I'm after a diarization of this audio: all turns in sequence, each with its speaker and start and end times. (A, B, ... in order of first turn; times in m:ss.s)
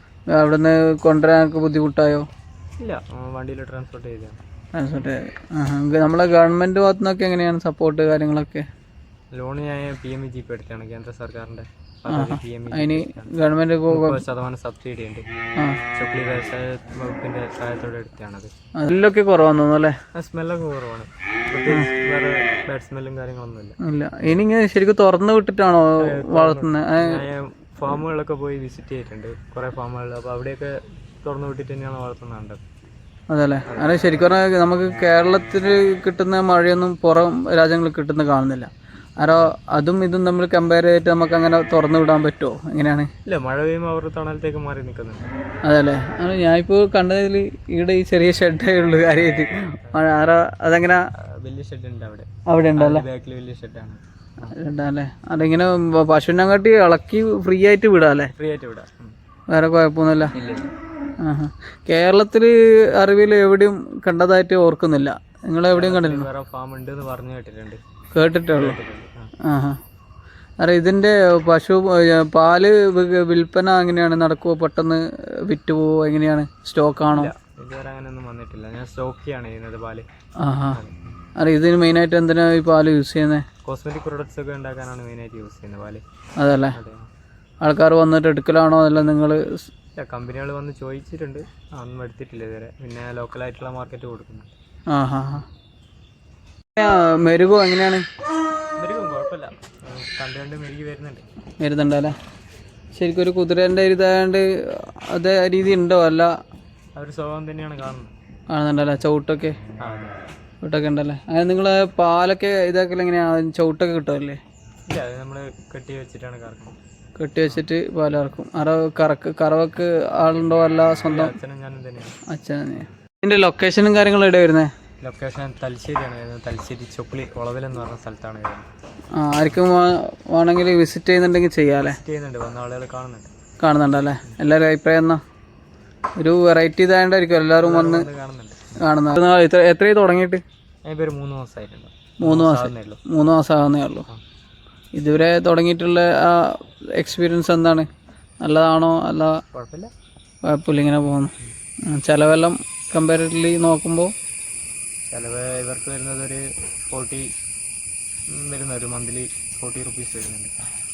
0:00.3-0:02.2 A
0:02.8-0:04.4 B
0:04.8-0:08.6 A
0:09.3-0:13.3 B
0:12.1-0:14.2 A
0:13.9-0:15.2 B
0:15.9-0:18.5 B
0:18.8-0:19.9 A
0:20.1-0:23.8 B
0:23.8-0:27.2 A
0:26.0-0:32.6 B
0:33.3-0:43.1 A
0:33.7-0:34.0 B
0:43.2-0:45.3 B
0:45.6-0:51.0 A
0:51.2-0:54.5 B
0:52.5-0:53.0 A
0:54.4-0:58.3 A
0:58.4-0:59.1 B
0:59.5-1:00.4 A
1:00.3-1:00.7 B
1:01.2-1:06.3 A
1:05.7-1:07.8 B
1:08.1-1:08.8 A
1:08.5-1:09.3 B
1:09.4-1:09.8 A
1:10.6-1:17.3 A
1:17.1-1:20.0 B
1:20.4-1:20.8 A
1:21.4-1:23.4 A
1:23.6-1:26.0 B
1:26.4-1:26.8 A
1:26.7-1:27.1 B
1:27.6-1:29.7 A
1:30.0-1:34.5 B
1:34.9-1:35.4 A
1:36.8-1:38.0 A
1:38.8-1:41.2 B
1:41.6-1:42.1 A
1:42.9-1:46.3 A
1:47.0-1:48.1 B
1:48.5-1:49.6 A
1:49.8-1:50.2 B
1:50.6-1:54.4 A
1:54.9-1:56.8 B
1:57.2-2:01.4 A
2:01.0-2:02.2 B
2:02.3-2:04.7 A
2:05.0-2:08.7 B
2:09.1-2:12.0 A
2:11.8-2:13.3 B
2:13.6-2:15.2 A
2:16.2-2:18.1 A
2:17.6-2:18.8 B
2:18.8-2:20.4 A
2:20.8-2:23.0 B
2:22.2-2:24.1 A
2:25.0-2:27.9 A
2:28.4-2:29.4 A
2:29.5-2:29.9 B
2:30.4-2:31.3 A
2:31.9-2:34.1 A
2:35.1-2:37.3 B
2:38.3-2:40.5 B